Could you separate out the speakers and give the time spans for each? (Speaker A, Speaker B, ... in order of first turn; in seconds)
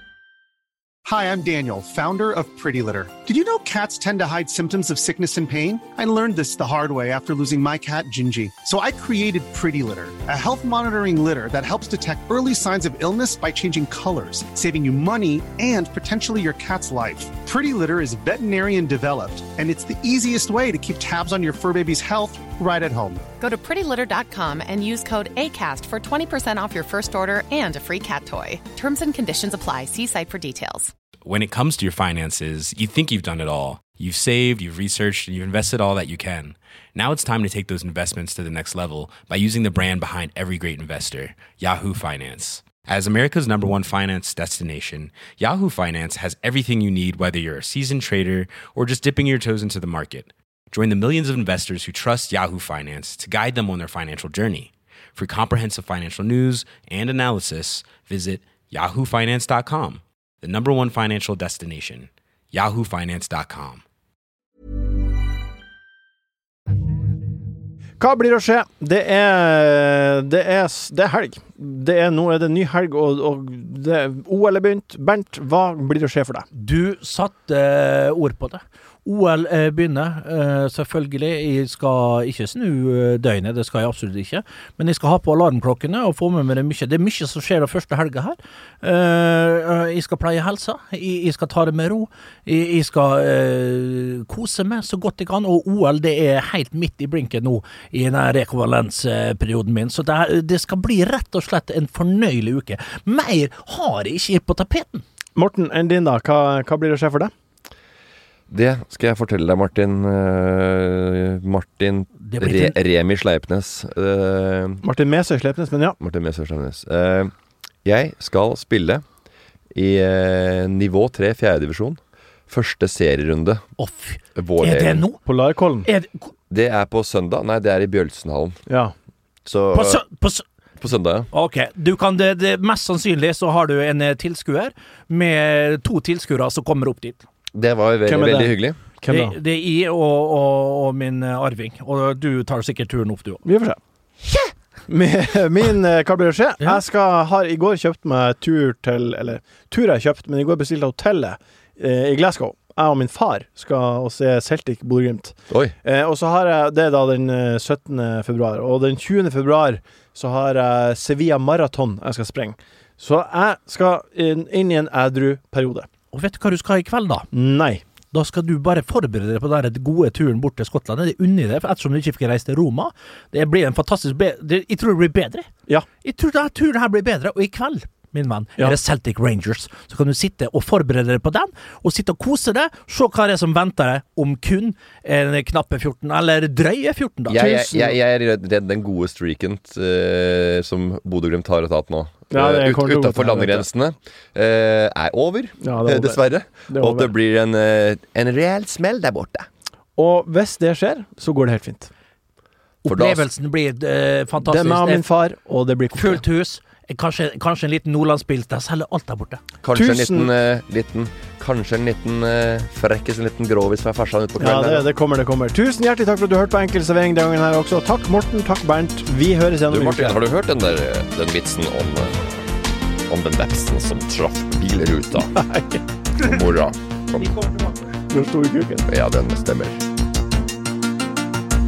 Speaker A: 1.1-23.2
Speaker B: 23.4-30.9
Speaker C: 31.2-63.8
Speaker D: 68.0-76.5, 105.3-107.3, 114.8-116.0, 125.2-125.9, 128.7-128.9, 138.0-139.3, 143.4-143.8, 144.9-165.9, 167.3-167.8, 187.3-188.0, 192.3-193.7, 195.6-197.1, 199.9-201.9, 204.4-206.2, 209.7-210.3, 214.4-220.2, 225.4-225.8, 228.1-228.8
Speaker E: 76.5-105.0, 112.2-112.8, 123.8-125.2, 125.8-126.3, 129.7-130.4, 131.3-137.2, 139.1-143.4, 166.1-167.3, 168.1-175.5, 176.0-187.4, 202.8-205.0, 205.9-209.4, 227.2-228.0
Speaker F: 108.5-114.8, 116.0-117.3, 117.8-119.0, 119.7-123.7, 124.3-125.0, 126.5-128.6, 129.4-130.0, 130.8-131.3, 137.5-138.8, 187.3-199.5, 202.8-203.2, 209.6-214.8, 219.7-222.2, 223.1-225.4, 226.2-227.3, 228.8-229.8